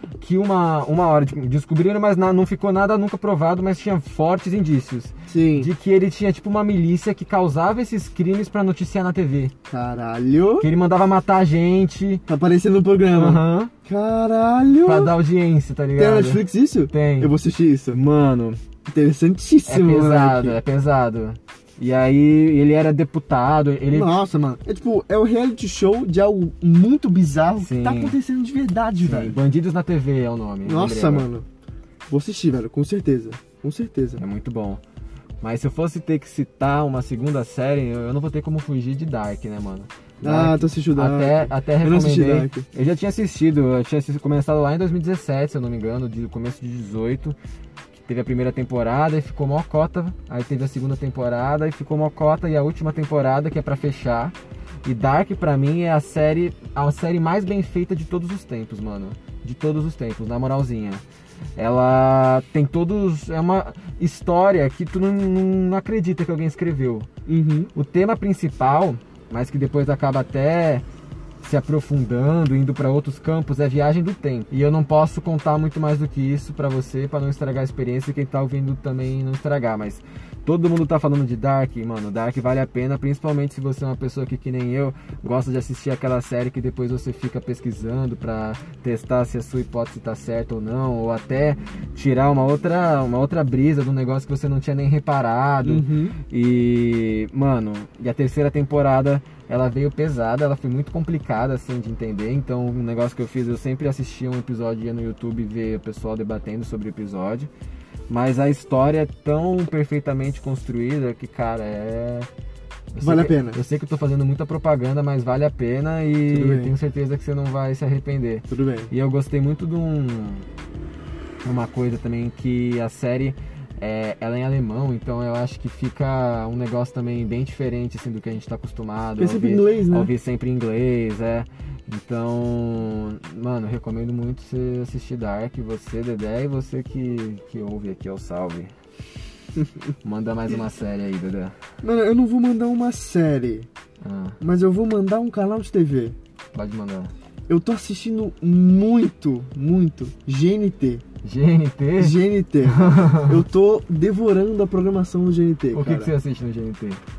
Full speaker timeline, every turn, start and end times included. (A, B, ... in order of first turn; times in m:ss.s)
0:00.2-0:09.5 A
0:05.3-0:05.7 B
0:09.7-0:10.7 B
0:10.6-0:12.2 A
0:12.3-0:15.1 B
0:13.1-0:13.7 A
0:14.8-0:17.4 A
0:16.0-0:18.0 B
0:17.9-0:18.6 A
0:18.9-0:20.6 B
0:19.7-0:24.1 A
0:23.9-0:29.4 B
0:27.6-0:28.2 A
0:29.0-0:31.3 A
0:30.6-0:31.5 B
0:32.1-0:34.2 B
0:34.2-0:34.8 A
0:35.4-0:47.4 A
0:40.2-0:42.7 B
0:47.9-1:01.0 A
1:01.6-1:07.1 A
1:07.3-1:07.7 B
1:07.7-1:10.8 A
1:11.4-1:47.5 A
1:35.6-1:36.2 B
1:48.1-1:52.3 A
1:52.9-2:00.5 A
1:53.0-1:53.6 B
1:56.3-1:56.7 B
1:58.5-1:58.9 B
2:01.4-2:18.7 A
2:09.2-2:10.1 B
2:20.0-2:21.6 A
2:21.8-2:23.7 B
2:24.0-2:24.4 A
2:24.4-2:26.2 B
2:26.5-2:27.1 A
2:27.5-2:31.0 B
2:31.2-2:33.4 A
2:32.0-2:36.1 B
2:35.7-2:37.0 A